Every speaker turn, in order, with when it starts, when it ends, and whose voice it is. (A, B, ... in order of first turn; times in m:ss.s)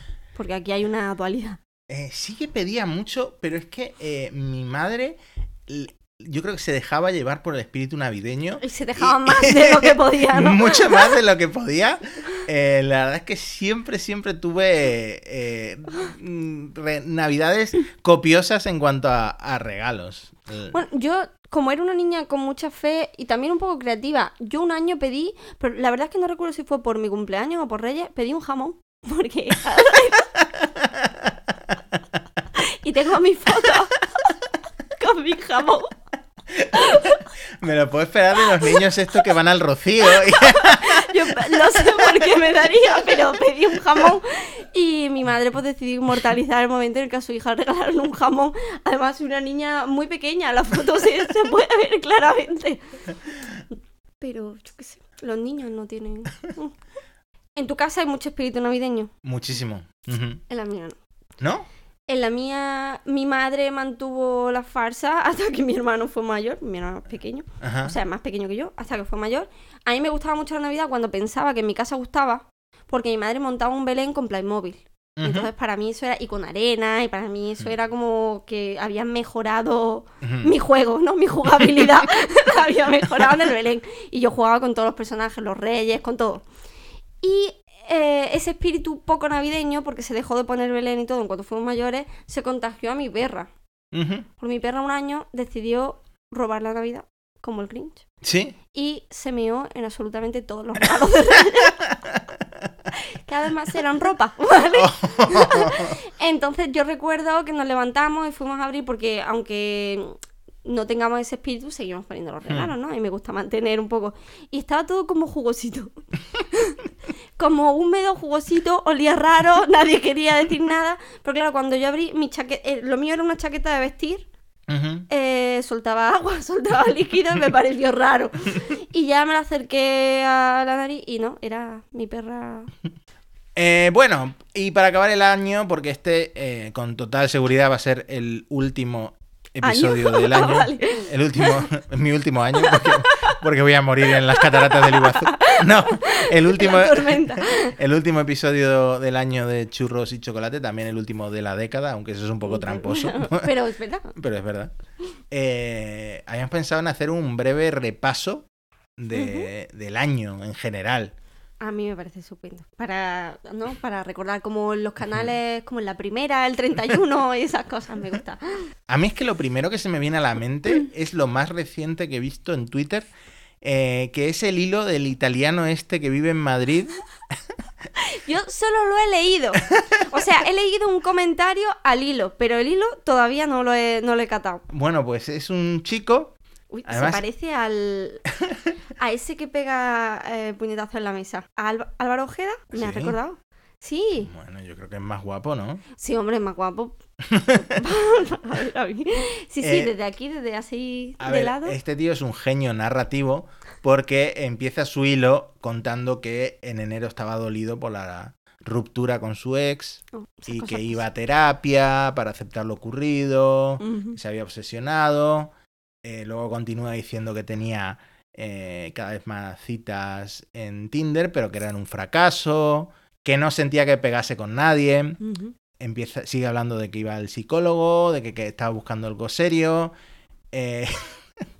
0:00.3-0:01.6 A
0:01.9-0:20.8 B
0:08.6-0:11.2 A
0:20.7-0:30.3 A
0:30.6-0:31.7 B
0:32.5-0:33.9 A
0:35.0-0:35.9 A
0:36.5-0:42.3 B
0:36.7-0:37.2 A
0:40.1-0:52.8 A
0:54.2-0:56.7 A
0:57.5-0:59.1 A
0:59.2-1:00.4 B
1:00.5-1:01.0 A
1:01.4-1:01.7 B
1:02.1-1:26.4 A
1:07.6-1:07.9 B
1:15.2-1:15.5 B
1:20.2-1:20.5 B
1:27.2-1:33.5 A
1:33.9-1:34.3 B
1:34.4-1:38.0 A
1:38.2-1:38.6 B
1:38.7-1:41.8 A
1:41.8-1:42.4 B
1:42.9-1:56.8 A
1:44.7-1:46.0 B
1:52.5-1:52.7 B
1:57.4-2:04.2 A
2:04.7-2:05.1 B
2:05.1-2:12.7 A
2:13.6-2:33.5 B
2:19.6-2:21.7 A
2:22.6-2:23.2 A
2:24.3-2:27.7 A
2:32.4-2:34.1 A
2:34.1-2:34.7 B
2:35.3-2:38.5 B
2:39.0-2:41.1 B
2:39.1-2:39.5 A
2:41.6-2:48.6 A
2:48.9-2:53.1 B
2:53.6-2:57.0 B
2:58.0-3:04.6 A
2:59.8-3:00.0 B
3:04.7-3:07.2 B
3:06.7-3:08.2 A
3:09.0-3:14.3 A
3:12.7-3:13.2 B
3:14.2-3:15.8 B
3:15.9-3:17.0 A
3:17.3-3:17.8 B
3:17.6-3:21.8 A
3:19.6-3:19.9 B
3:21.2-3:35.5 B
3:30.1-3:31.0 A
3:33.8-3:34.2 A
3:36.0-3:45.2 B
3:45.2-3:45.5 A
3:45.8-3:49.9 B
3:50.5-3:51.2 B